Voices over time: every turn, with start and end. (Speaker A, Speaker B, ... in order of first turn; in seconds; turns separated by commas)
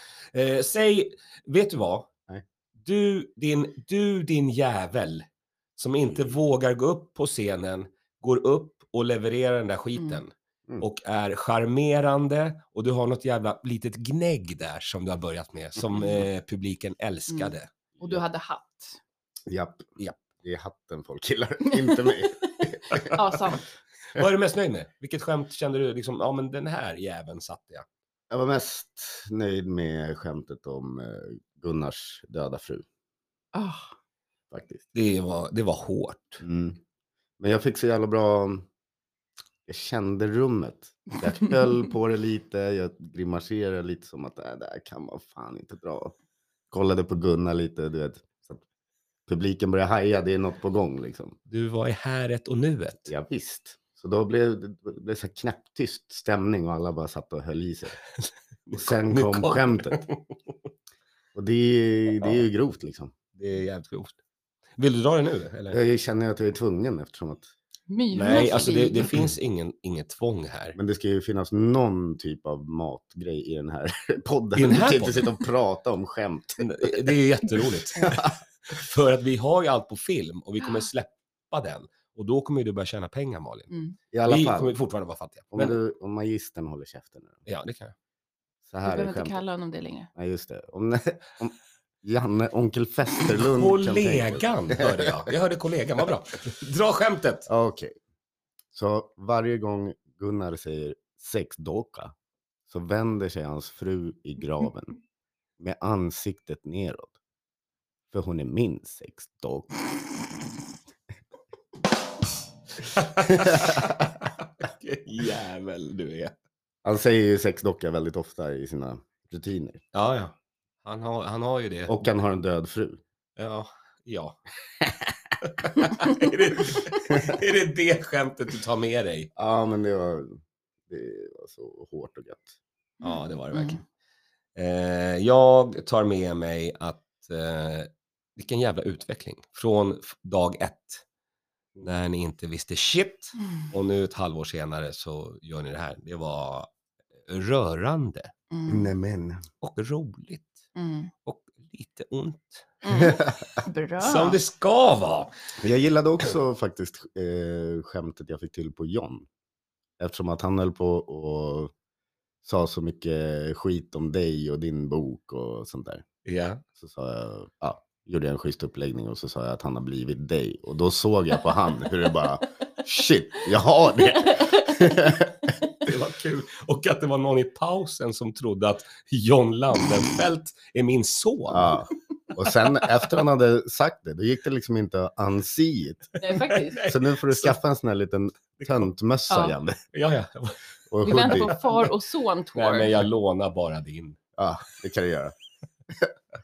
Speaker A: 0.3-2.1, Speaker A: 2.8-5.2, Speaker A: 5.8-18.2, Speaker B: 17.3-19.0, Speaker C: 19.5-23.2, Speaker A: 20.0-20.2, Speaker B: 21.6-23.6, Speaker A: 24.1-27.9, Speaker C: 28.3-32.9, Speaker B: 33.5-33.9, Speaker C: 34.5-34.9, Speaker A: 34.9-36.4, Speaker C: 36.4-36.8, Speaker C: 37.4-38.7, Speaker C: 39.7-46.1, Speaker C: 46.7-48.6, Speaker C: 49.3-51.4, Speaker A: 51.5-53.1, Speaker C: 53.1-58.0, Speaker A: 58.2-60.3, Speaker C: 58.7-60.0, Speaker C: 61.3-63.1, Speaker A: 62.2-62.5, Speaker A: 63.3-64.2, Speaker A: 64.8-65.8, Speaker C: 65.7-67.5, Speaker B: 67.9-69.2, Speaker A: 68.1-70.8, Speaker C: 70.8-77.1, Speaker A: 74.5-75.3, Speaker A: 76.6-83.7, Speaker C: 77.9-78.3, Speaker B: 83.7-84.0, Speaker C: 84.1-84.7, Speaker A: 84.2-85.8, Speaker C: 85.5-87.4, Speaker A: 87.5-87.9, Speaker C: 88.7-89.4, Speaker B: 88.8-90.1, Speaker C: 90.2-95.3, Speaker A: 93.4-97.5, Speaker C: 97.5-98.0, Speaker C: 98.7-102.1, Speaker C: 102.7-104.9, Speaker C: 105.6-107.1, Speaker C: 108.1-109.7, Speaker A: 112.8-116.3, Speaker C: 113.3-113.8, Speaker C: 116.8-119.8, Speaker A: 119.9-122.0, Speaker C: 121.9-123.0, Speaker A: 123.4-124.4, Speaker A: 125.4-129.3, Speaker C: 129.3-132.6, Speaker B: 133.0-133.8, Speaker A: 133.0-133.8, Speaker A: 134.6-141.0, Speaker A: 141.8-146.7, Speaker A: 147.3-148.3, Speaker B: 148.5-148.9, Speaker C: 148.7-149.4, Speaker A: 149.6-150.7, Speaker B: 150.8-151.1, Speaker A: 151.2-152.8, Speaker B: 152.8-154.4, Speaker C: 153.0-153.3, Speaker A: 154.0-155.3, Speaker C: 155.6-159.3, Speaker C: 160.0-161.7, Speaker C: 162.4-166.0, Speaker A: 166.2-166.6, Speaker C: 166.8-175.5, Speaker B: 174.2-174.9, Speaker A: 175.8-181.8, Speaker C: 181.5-186.1, Speaker B: 186.2-186.8, Speaker A: 186.2-187.6, Speaker C: 186.8-189.8, Speaker A: 188.6-188.9, Speaker B: 189.3-189.6, Speaker A: 189.9-191.9, Speaker C: 190.9-191.6, Speaker B: 191.0-193.0, Speaker A: 192.5-194.2, Speaker C: 194.4-195.3